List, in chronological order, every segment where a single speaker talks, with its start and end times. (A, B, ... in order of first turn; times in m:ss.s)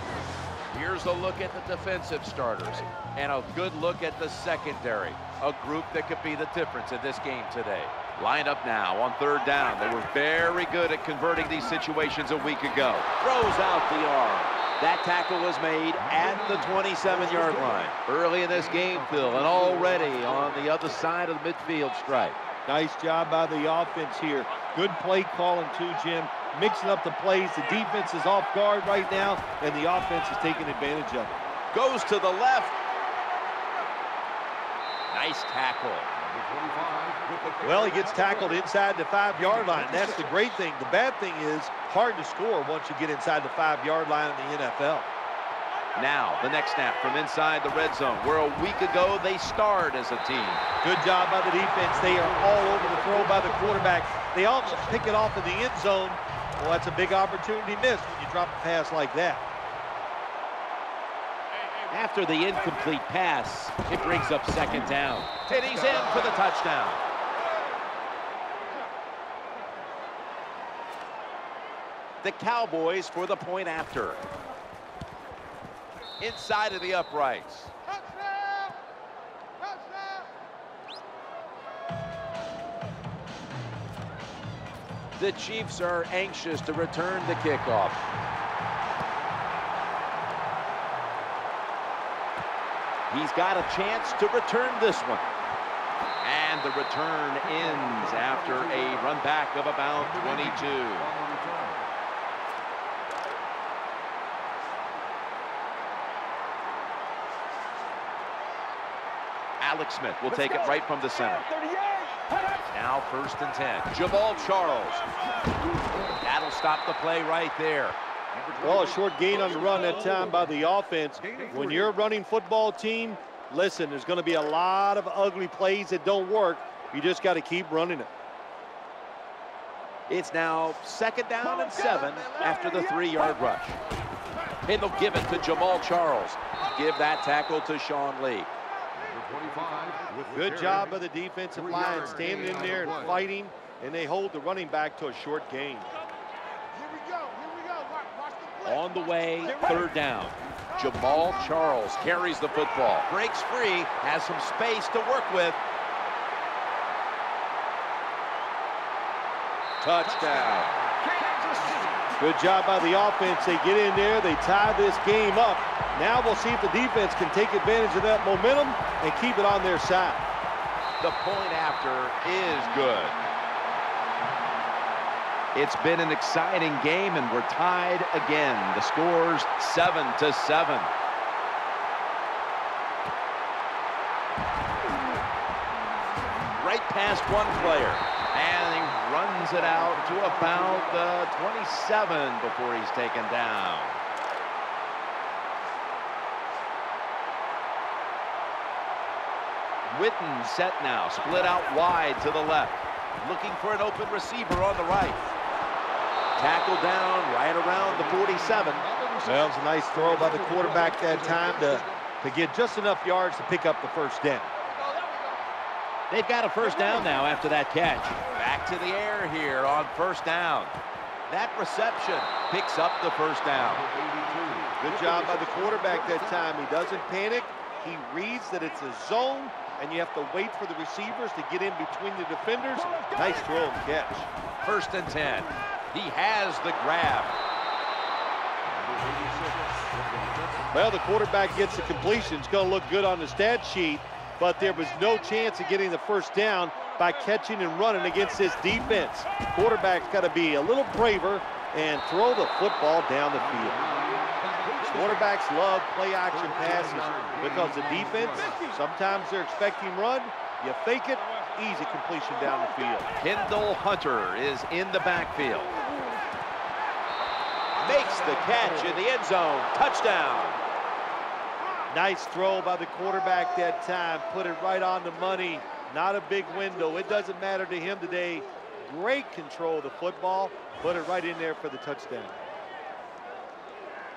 0:00.7-0:22.4 A
0:16.1-0:17.8 B
0:18.7-0:20.6 B
0:22.7-0:31.4 C
0:31.7-0:32.8 A
0:35.1-0:36.1 A
0:36.2-0:38.6 B
0:37.6-0:45.1 C
0:39.5-0:40.4 B
0:46.0-0:50.6 A
0:50.8-0:59.4 C
1:01.9-1:07.0 A
1:12.2-1:14.2 A
1:16.2-1:17.7 A
1:25.2-1:28.0 A
1:33.1-1:35.2 A
1:36.2-1:41.1 A
1:37.6-1:39.1 B
1:40.0-1:41.9 B
1:49.6-1:51.5 A
1:52.6-1:55.0 A
1:56.2-1:58.0 A
1:58.3-1:59.8 B
1:58.6-2:08.1 C
2:01.2-2:01.9 B
2:10.1-2:13.8 A
2:14.6-2:18.5 A
2:19.0-2:21.0 B
2:20.3-2:26.0 C
2:21.6-2:23.2 B
2:28.6-2:35.6 A
2:39.8-2:40.7 A
2:40.2-2:42.1 B
2:42.2-2:50.2 C
2:51.0-2:53.2 A
2:55.5-3:00.9 A
3:06.6-3:14.0 A
3:19.9-3:25.3 A
3:26.4-3:28.9 A
3:27.9-3:29.4 B
3:29.2-3:34.5 C
3:30.0-3:31.8 B
3:36.1-3:40.8 A
3:41.3-3:43.8 A
3:43.8-3:45.9 B
3:44.8-3:54.3 C
3:54.6-3:57.4 A
3:58.6-4:00.7 B
4:00.7-4:13.9 C
4:13.5-4:15.3 B
4:14.9-4:23.1 C
4:16.3-4:18.5 B
4:23.2-4:25.7 A
4:27.8-4:30.6 A
4:31.9-4:42.4 C